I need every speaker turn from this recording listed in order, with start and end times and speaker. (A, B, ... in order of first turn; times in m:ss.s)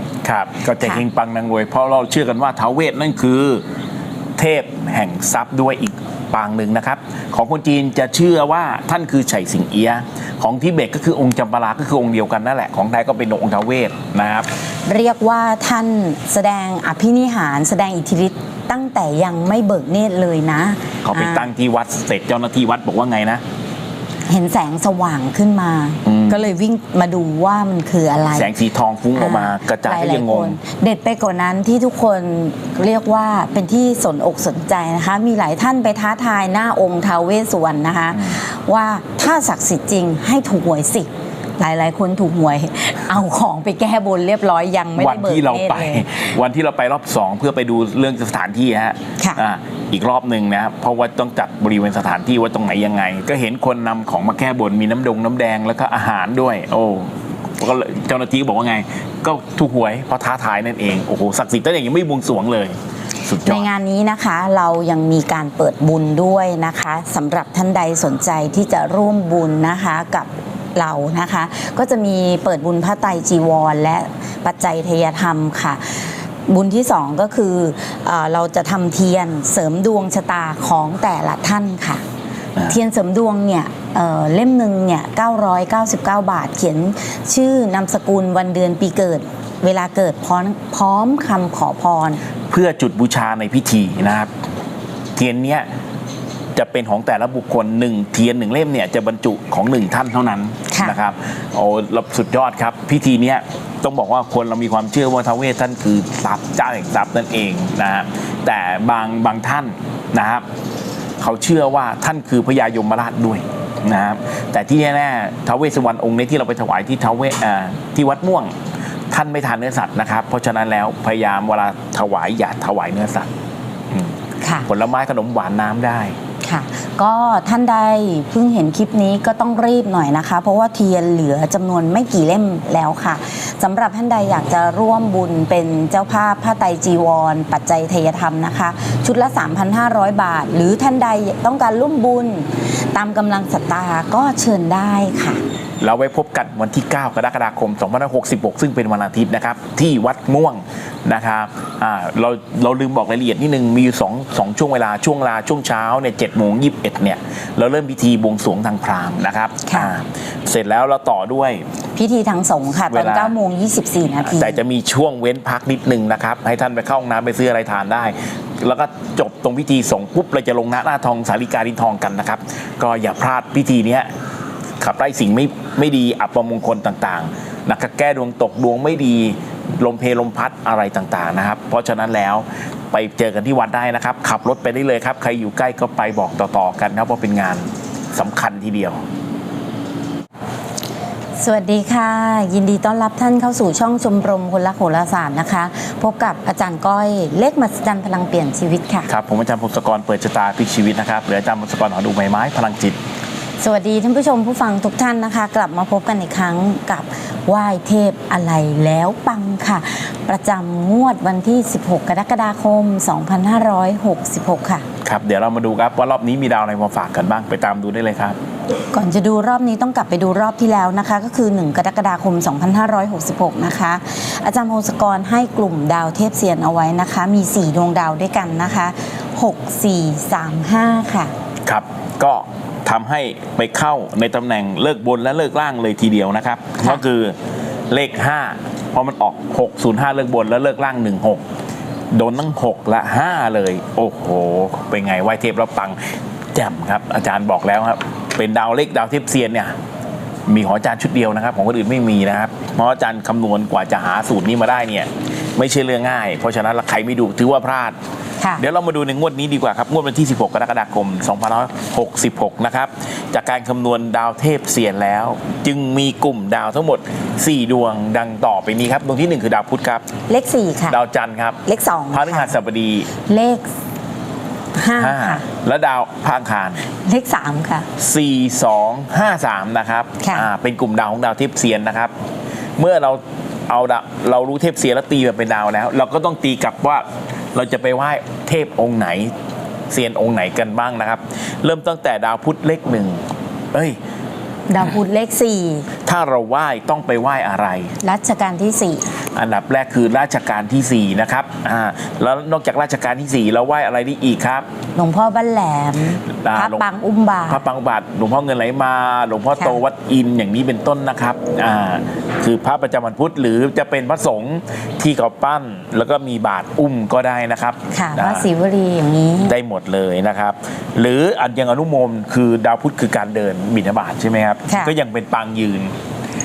0:00.2-0:03.6 A
0:00.8-0:01.0 B
0:04.4-0:14.5 A
0:14.9-0:21.5 B
0:21.0-0:23.4 A
0:24.3-0:28.5 B
0:26.0-0:26.4 A
0:28.3-0:30.6 A
0:29.2-0:46.1 B
0:38.1-0:38.4 A
0:45.0-1:03.7 A
1:03.4-1:22.0 B
1:22.6-1:32.2 B
1:32.5-1:34.3 A
1:35.2-1:35.7 A
1:36.5-1:50.4 A
1:40.7-1:41.0 B
1:51.2-1:58.6 A
1:59.1-2:03.3 A
2:04.4-2:04.7 B
2:04.7-2:06.2 A
2:06.4-2:25.4 B
2:25.8-2:41.7 A
2:39.7-2:39.9 B
2:42.0-2:44.6 B
2:42.9-2:43.3 A
2:44.3-2:54.1 A
2:54.8-3:09.0 A
3:11.4-3:19.1 B
3:19.1-3:23.0 A
3:23.6-3:34.8 B
3:35.0-3:38.4 A
3:38.9-3:51.3 B
3:51.7-3:57.4 A
3:57.9-4:01.4 A
4:02.1-4:09.8 A
4:10.5-4:18.0 A
4:18.6-4:30.0 A
4:30.3-4:31.0 B
4:30.9-4:31.6 A
4:31.7-4:32.5 B
4:32.1-4:33.1 A
4:33.2-4:33.7 B
4:34.7-4:35.4 B
4:35.0-4:36.8 A
4:37.0-4:37.9 B
4:38.0-4:42.1 A
4:40.2-4:40.5 B
4:42.8-4:49.3 A
4:49.9-4:54.0 A
4:54.7-4:55.9 B
4:56.1-4:58.0 A
4:58.0-4:59.1 B
4:59.3-5:04.7 A
5:05.0-5:07.6 B
5:06.4-5:06.8 A
5:07.5-5:18.5 A
5:09.6-5:09.8 B
5:17.9-5:19.6 B
5:19.5-5:25.9 A
5:24.7-5:24.9 B